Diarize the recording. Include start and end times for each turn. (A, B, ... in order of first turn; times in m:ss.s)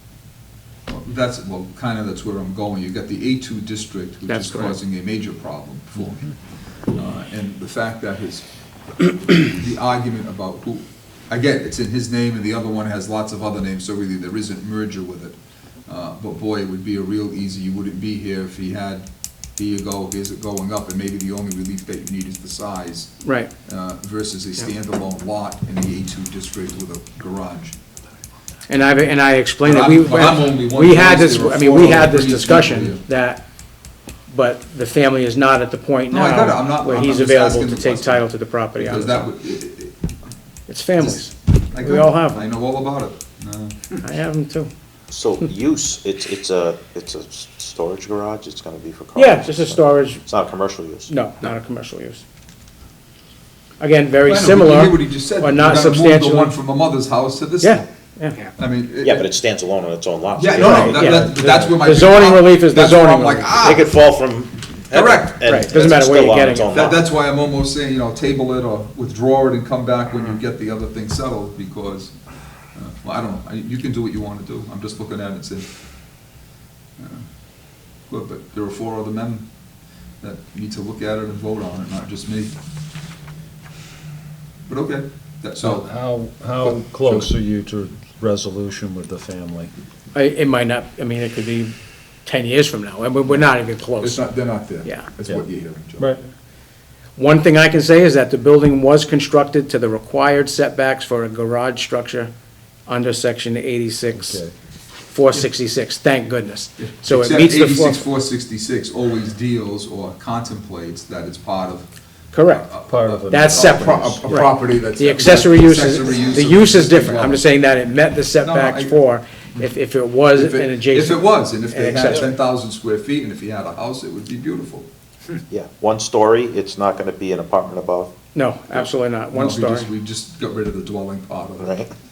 0:00.9-0:06.3 A
0:04.3-0:04.8 B
0:06.9-0:08.4 A
0:09.1-0:15.3 A
0:15.9-0:23.1 A
0:23.2-0:23.5 B
0:23.6-0:27.8 A
0:28.7-0:33.4 B
0:29.6-0:33.0 A
0:34.3-0:39.3 B
0:36.1-0:40.0 A
0:40.7-0:42.4 B
0:41.7-0:43.8 A
0:44.0-0:44.7 B
0:45.1-0:51.1 C
0:49.2-0:50.2 B
0:51.1-0:52.2 B
0:53.8-0:56.6 B
0:54.3-0:57.8 A
0:57.6-0:58.4 B
0:58.6-0:59.3 A
0:59.0-1:01.2 C
1:00.4-1:03.9 A
1:00.5-1:03.8 B
1:03.6-1:07.0 C
1:04.9-1:05.5 A
1:05.4-1:06.8 B
1:06.7-1:12.2 A
1:12.7-1:15.7 A
1:17.0-1:17.2 A
1:18.1-1:19.5 A
1:20.2-1:22.5 A
1:24.7-1:25.8 A
1:25.6-1:29.7 D
1:30.1-1:31.7 B
1:32.2-1:34.2 B
1:34.0-1:36.2 A
1:37.2-1:42.3 B
1:42.9-1:44.4 B
1:44.1-1:44.5 D
1:45.1-1:48.0 B
1:46.8-1:51.8 A
1:52.3-1:52.7 B
1:52.4-1:57.4 A
1:52.9-1:54.3 D
1:53.3-2:02.3 B
1:58.4-1:59.0 A
2:00.3-2:04.9 A
2:05.5-2:08.1 C
2:08.3-2:09.9 B
2:09.3-2:11.8 A
2:11.6-2:11.9 C